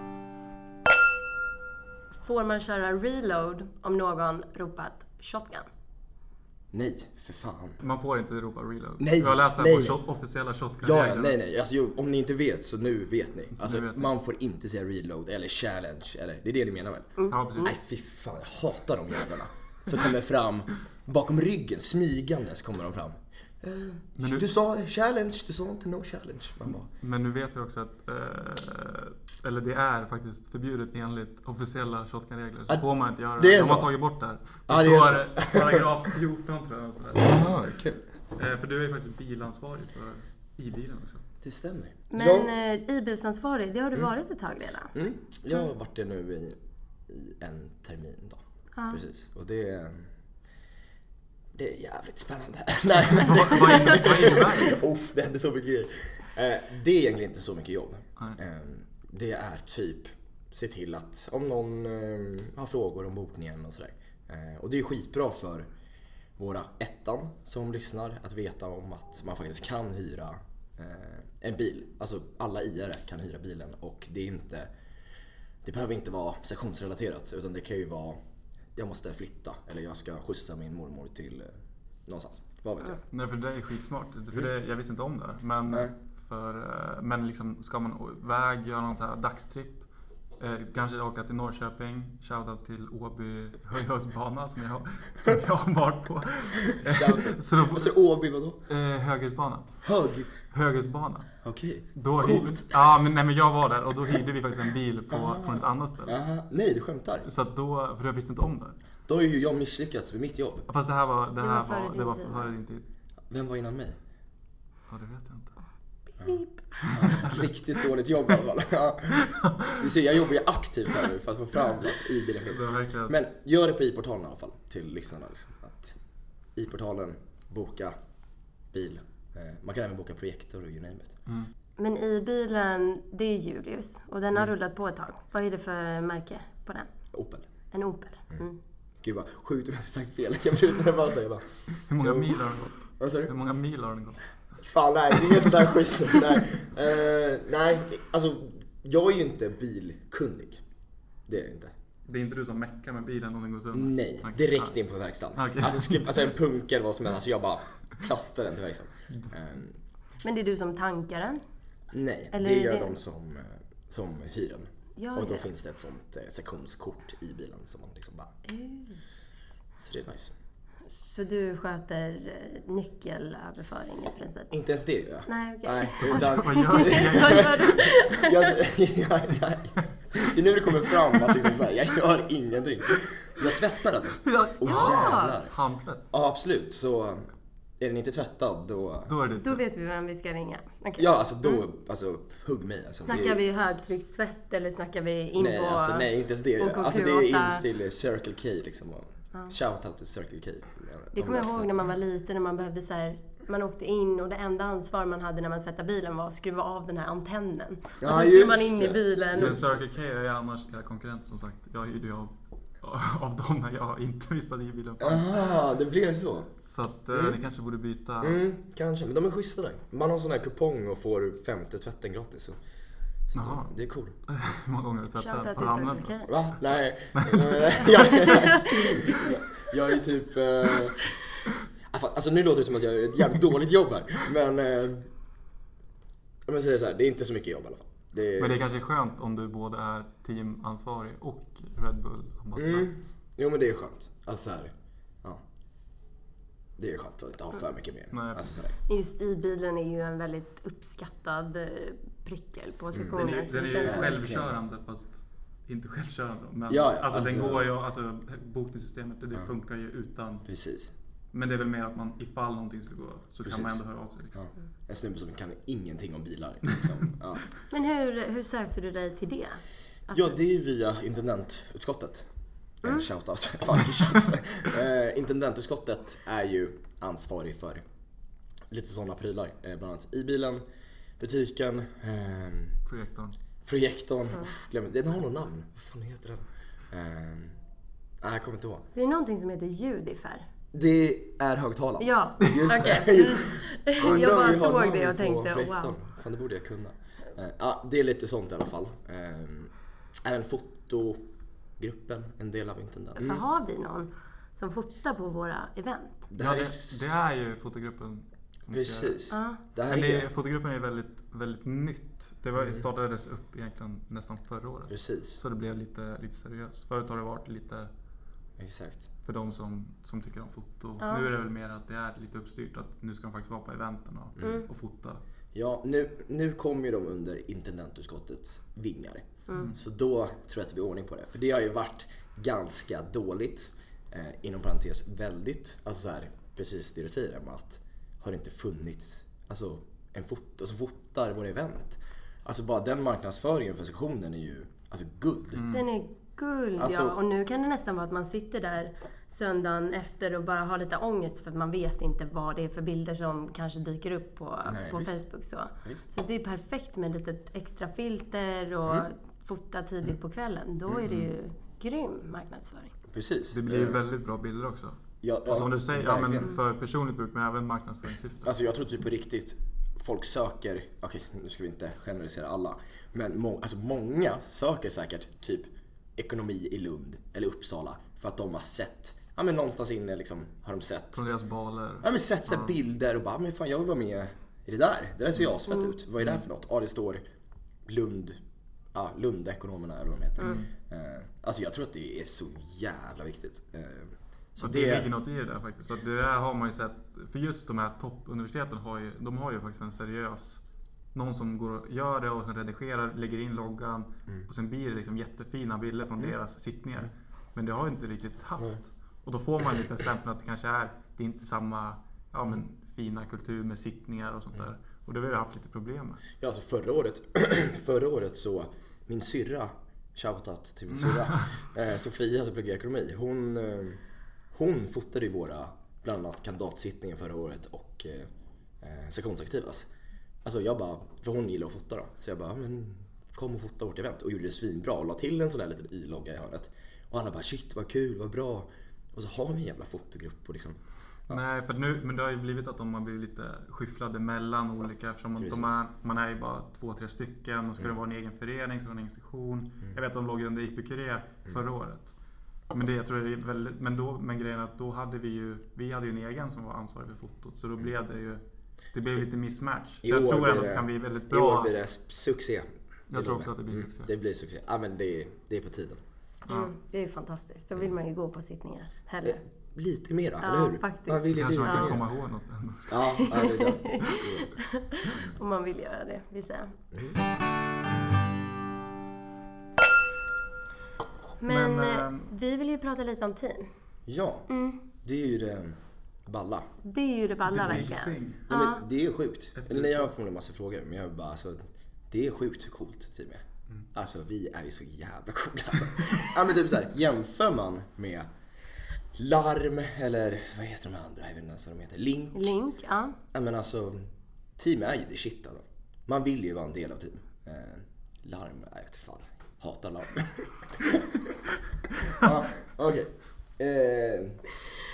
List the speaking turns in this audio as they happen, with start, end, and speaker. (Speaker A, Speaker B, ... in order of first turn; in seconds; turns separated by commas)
Speaker A: 2.2-5.7, Speaker B: 6.7-7.8, Speaker C: 7.8-11.4, Speaker B: 9.0-10.0, Speaker B: 10.8-26.9, Speaker C: 13.6-14.1, Speaker A: 17.2-17.7, Speaker C: 17.3-17.7, Speaker C: 24.2-24.5, Speaker C: 27.0-37.5, Speaker B: 33.4-33.9, Speaker B: 34.7-36.1, Speaker B: 37.2-38.0, Speaker C: 38.4-41.2, Speaker B: 41.4-42.5, Speaker A: 42.1-45.0, Speaker B: 44.9-50.1, Speaker A: 48.8-49.0, Speaker B: 51.5-65.7, Speaker C: 53.1-54.8, Speaker B: 66.4-74.7, Speaker B: 75.6-78.2, Speaker B: 78.8-83.0, Speaker C: 83.1-89.8, Speaker C: 90.4-98.0, Speaker B: 96.7-98.6, Speaker C: 98.7-99.8, Speaker B: 99.8-100.3, Speaker C: 100.5-101.3, Speaker B: 101.4-102.8, Speaker C: 102.0-106.2, Speaker B: 105.1-107.3, Speaker C: 107.2-108.8, Speaker B: 109.1-110.7, Speaker C: 110.7-112.9, Speaker A: 111.4-112.5, Speaker B: 113.3-114.0, Speaker C: 114.9-115.5, Speaker A: 116.1-117.0, Speaker C: 116.8-117.4, Speaker B: 116.9-126.0, Speaker C: 119.2-119.8, Speaker C: 122.5-123.2, Speaker B: 126.5-128.0, Speaker B: 128.7-131.2, Speaker A: 131.8-136.9, Speaker B: 137.1-137.5, Speaker A: 137.7-138.6, Speaker B: 139.0-142.4, Speaker C: 141.9-144.3, Speaker B: 143.0-143.3, Speaker B: 144.6-150.6, Speaker B: 151.3-151.7, Speaker C: 152.1-154.8, Speaker B: 153.7-159.8, Speaker C: 155.4-156.1, Speaker A: 160.2-161.4, Speaker B: 161.9-168.4, Speaker A: 162.3-163.0, Speaker A: 165.0-165.5, Speaker A: 168.4-169.0, Speaker B: 169.8-170.3, Speaker A: 170.9-174.5, Speaker B: 174.5-185.6, Speaker A: 175.3-178.6, Speaker C: 176.0-177.9, Speaker C: 181.0-181.4, Speaker C: 184.2-186.0, Speaker A: 184.6-185.4, Speaker B: 186.1-187.3, Speaker B: 187.8-189.1, Speaker C: 189.1-189.6, Speaker A: 189.4-191.1, Speaker B: 191.0-193.4, Speaker A: 193.1-197.6, Speaker B: 195.4-201.8, Speaker A: 201.1-209.6, Speaker B: 208.0-209.7, Speaker C: 209.3-215.5, Speaker B: 215.0-216.5, Speaker C: 216.6-218.4, Speaker B: 218.2-222.6, Speaker B: 223.3-224.2, Speaker C: 223.3-223.7, Speaker C: 224.3-226.1, Speaker A: 225.2-226.3, Speaker B: 226.3-231.1, Speaker C: 227.2-228.2, Speaker A: 228.0-229.2, Speaker B: 231.9-235.1, Speaker B: 236.5-238.6, Speaker C: 238.4-242.9, Speaker B: 242.6-245.4, Speaker B: 246.8-248.8, Speaker C: 248.1-248.6, Speaker A: 248.9-254.2, Speaker B: 252.9-253.2, Speaker C: 253.1-260.4, Speaker B: 253.8-254.6, Speaker B: 256.7-257.7, Speaker B: 260.4-260.9, Speaker C: 261.3-264.4, Speaker B: 263.4-263.8, Speaker B: 264.3-267.5, Speaker A: 267.7-270.4, Speaker B: 270.1-272.3, Speaker B: 272.8-277.8, Speaker B: 278.7-280.6, Speaker B: 281.2-282.8, Speaker C: 282.9-283.4, Speaker B: 283.6-287.6, Speaker B: 288.2-288.9, Speaker A: 288.9-290.5, Speaker B: 290.7-301.2, Speaker A: 292.0-296.0, Speaker C: 294.0-294.6, Speaker B: 301.8-303.4, Speaker A: 303.2-306.2, Speaker B: 306.3-307.1, Speaker C: 306.4-309.2, Speaker B: 308.7-310.3, Speaker A: 309.3-309.6, Speaker C: 309.9-317.9, Speaker B: 312.6-312.8, Speaker B: 314.9-315.4, Speaker B: 318.6-319.1, Speaker C: 319.2-325.2, Speaker A: 321.0-321.3, Speaker A: 324.4-324.7, Speaker B: 325.5-345.6, Speaker C: 345.6-345.9, Speaker A: 345.7-362.9, Speaker B: 346.8-347.2, Speaker B: 354.7-355.2, Speaker B: 355.8-356.1, Speaker C: 361.0-361.3, Speaker B: 363.1-364.0, Speaker C: 363.5-368.5, Speaker B: 365.2-366.5, Speaker B: 368.4-381.2, Speaker C: 381.1-382.7, Speaker B: 382.0-387.2, Speaker B: 387.9-388.4, Speaker B: 388.9-395.1, Speaker C: 390.4-390.7, Speaker C: 394.6-400.6, Speaker C: 401.1-416.2, Speaker B: 416.4-424.0, Speaker C: 421.1-421.5, Speaker B: 424.5-428.3, Speaker B: 428.8-429.9, Speaker B: 430.4-441.4, Speaker C: 441.3-452.1, Speaker B: 445.4-445.8, Speaker C: 452.7-458.4, Speaker C: 458.9-461.7, Speaker B: 460.0-466.0, Speaker C: 463.1-464.1, Speaker A: 466.5-469.4, Speaker B: 469.2-472.1, Speaker A: 470.4-472.0, Speaker C: 471.3-473.4, Speaker B: 472.9-474.5, Speaker A: 473.1-476.8, Speaker B: 476.9-477.2, Speaker A: 481.4-483.7, Speaker C: 481.5-482.3, Speaker B: 484.1-484.5, Speaker A: 484.5-484.8, Speaker B: 485.0-486.7, Speaker A: 486.8-488.8, Speaker C: 487.5-488.5, Speaker B: 488.5-498.3, Speaker C: 489.6-490.1, Speaker B: 499.1-502.6, Speaker A: 502.3-503.2, Speaker B: 503.3-511.4, Speaker B: 512.0-514.4